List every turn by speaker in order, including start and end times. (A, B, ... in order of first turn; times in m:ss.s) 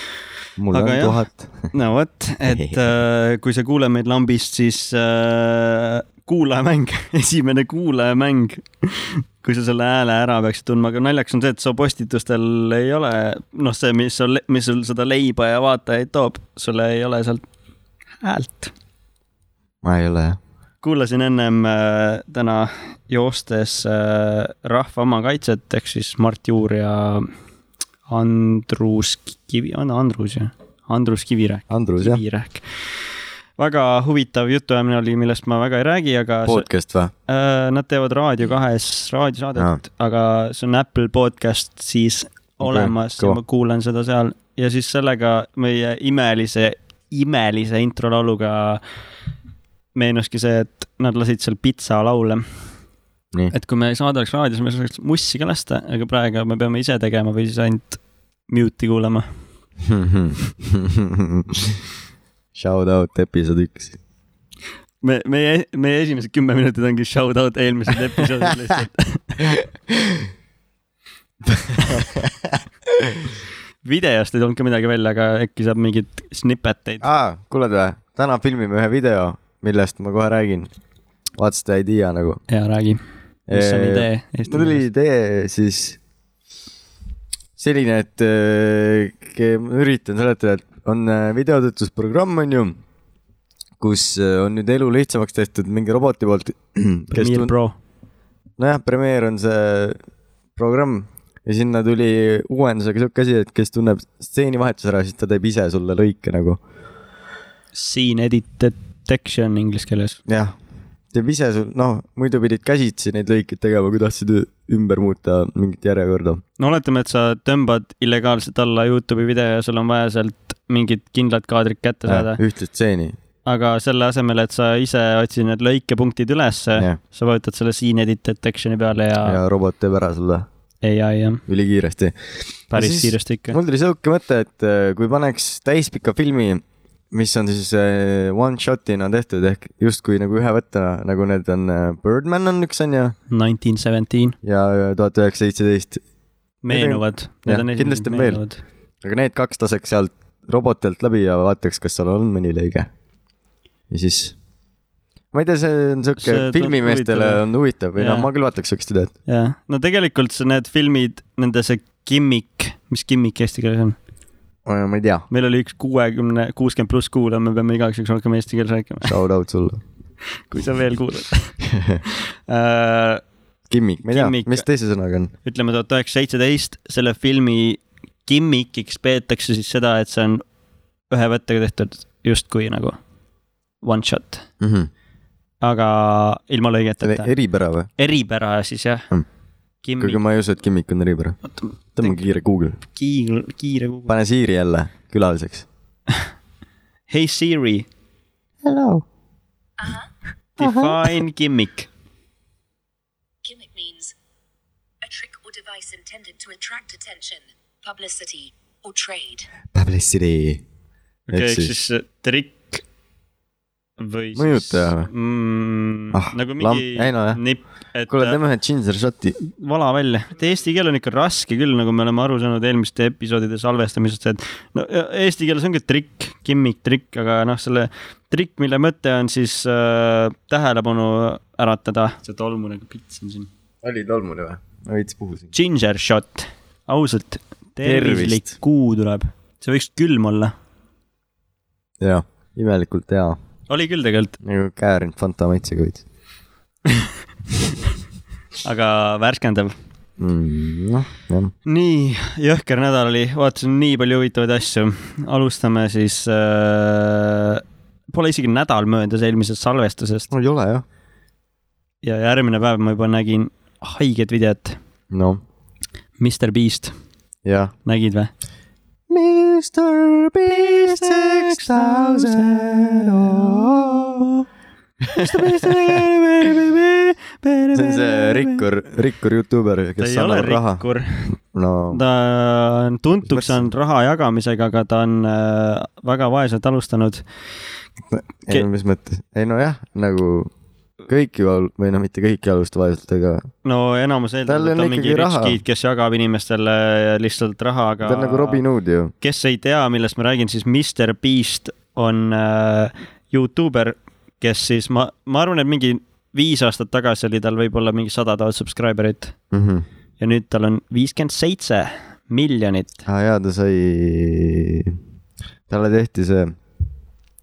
0:00.6-0:01.7 A
0:00.7-0:01.2 B
0:01.7-0:17.4 B
0:02.5-0:02.8 A
0:18.2-0:18.7 B
0:19.8-0:20.4 A
0:20.8-0:27.3 B
0:28.1-0:32.6 B
0:31.7-0:32.2 A
0:33.6-0:36.7 B
0:36.5-0:37.1 A
0:37.3-0:48.8 B
0:42.6-0:43.4 A
0:49.9-0:52.4 B
0:53.5-0:59.3 B
0:59.8-1:01.8 A
1:02.6-1:04.0 A
1:05.0-1:09.6 B
1:08.2-1:08.7 A
1:09.4-1:10.3 A
1:11.4-1:13.3 A
1:13.8-1:17.1 B
1:17.0-1:20.7 A
1:21.4-1:22.4 A
1:22.5-1:23.0 B
1:23.5-1:26.0 A
1:23.5-1:24.9 B
1:27.6-1:32.8 A
1:33.8-1:37.5 A
1:37.1-1:37.8 B
1:38.6-1:40.0 A
1:40.6-1:46.6 A
1:47.7-1:50.2 B
1:50.3-1:50.6 A
1:51.1-1:56.4 A
1:56.6-2:02.4 B
2:02.1-2:03.2 A
2:03.4-2:09.4 B
2:09.2-2:10.5 A
2:10.8-2:11.4 B
2:11.5-2:12.2 A
2:12.7-2:13.6 B
2:12.7-2:23.2 A
2:23.3-2:24.4 B
2:24.4-2:26.0 A
2:26.6-2:28.6 B
2:26.7-2:28.4 A
2:29.0-2:32.9 A
2:33.9-2:34.4 A
2:35.3-2:39.1 A
2:36.2-2:37.4 B
2:38.0-2:38.3 B
2:39.3-2:44.0 B
2:44.7-2:45.3 A
2:45.3-2:49.2 B
2:49.0-2:49.8 A
2:50.5-2:51.6 B
2:51.7-2:52.0 A
2:52.1-2:53.2 B
2:53.7-2:55.3 A
2:54.1-2:54.6 B
2:55.4-3:00.4 B
3:01.1-3:03.0 B
3:03.8-3:04.5 B
3:04.6-3:04.9 A
3:05.6-3:07.3 B
3:07.0-3:07.9 A
3:08.0-3:09.1 B
3:09.8-3:10.2 B
3:10.0-3:11.4 A
3:12.0-3:12.8 A
3:13.0-3:14.2 B
3:14.1-3:15.7 A
3:17.1-3:17.9 B
3:18.6-3:19.0 A
3:19.8-3:20.1 C
3:20.6-3:21.9 B
3:20.6-3:21.1 A
3:23.4-3:24.1 C
3:25.0-3:29.5 C
3:29.7-3:30.6 A
3:31.3-3:32.8 B
3:31.3-3:31.7 A
3:34.0-3:38.4 B
3:34.4-3:35.1 A
3:36.1-3:37.4 A
3:38.1-3:39.4 A
3:39.5-3:53.5 B
3:53.8-3:55.5 A
3:55.5-4:00.5 B
3:57.8-3:58.5 A
4:02.0-4:03.4 A
4:03.7-4:04.4 B
4:04.4-4:06.0 A
4:08.6-4:09.8 B
4:10.2-4:11.5 A
4:11.7-4:17.6 B
4:18.1-4:20.3 B
4:20.3-4:20.8 A
4:22.0-4:24.8 B
4:25.1-4:25.4 A
4:26.2-4:26.9 B
4:27.4-4:27.7 A
4:27.8-4:28.3 B
4:29.1-4:34.4 A
4:30.5-4:33.4 B
4:35.0-4:36.6 A
4:35.2-4:38.6 B
4:37.7-4:40.8 A
4:40.0-4:41.3 B
4:41.5-4:42.0 A
4:41.9-4:47.2 B
4:43.3-4:43.6 A
4:48.1-4:50.5 A
4:51.1-4:53.5 A
4:53.6-4:58.6 B
4:54.5-4:55.6 A
4:58.0-4:59.1 A
4:59.2-5:09.4 B
5:09.5-5:09.8 A
5:10.2-5:13.0 B
5:13.1-5:15.0 A
5:15.7-5:16.6 A